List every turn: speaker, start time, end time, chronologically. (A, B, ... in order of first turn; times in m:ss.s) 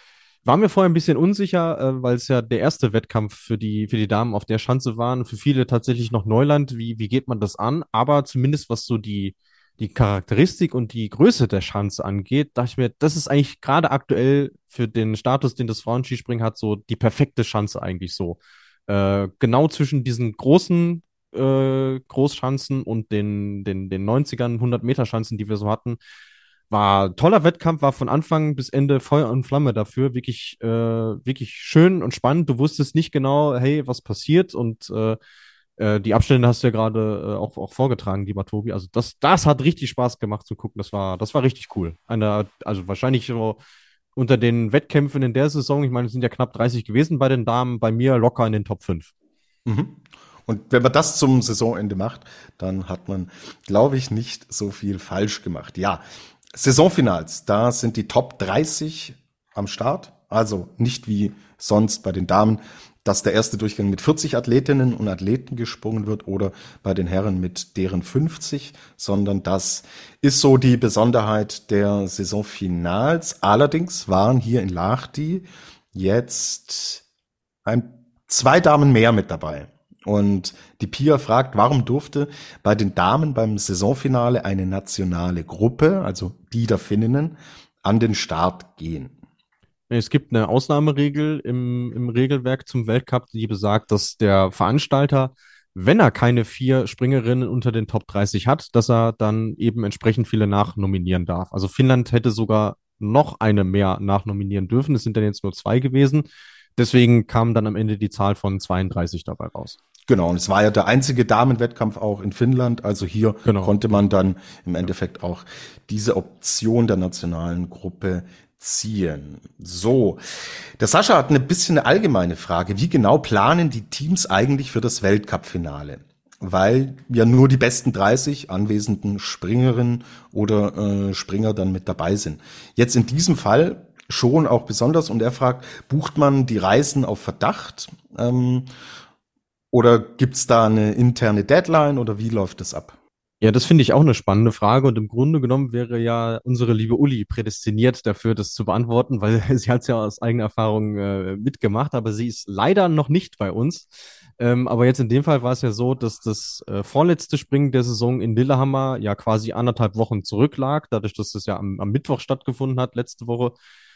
0:00.4-0:26.0 A
0:26.7-0:35.2 A
0:35.8-0:43.6 A
0:44.2-0:49.1 A
0:49.7-0:56.0 B
0:56.5-1:17.0 B
1:17.6-1:29.1 B
1:29.9-1:46.2 A
1:46.8-1:49.8 A
1:50.1-2:00.2 B
1:53.4-1:53.8 A
2:00.8-2:18.7 B
2:19.7-2:23.0 B
2:23.4-2:43.6 A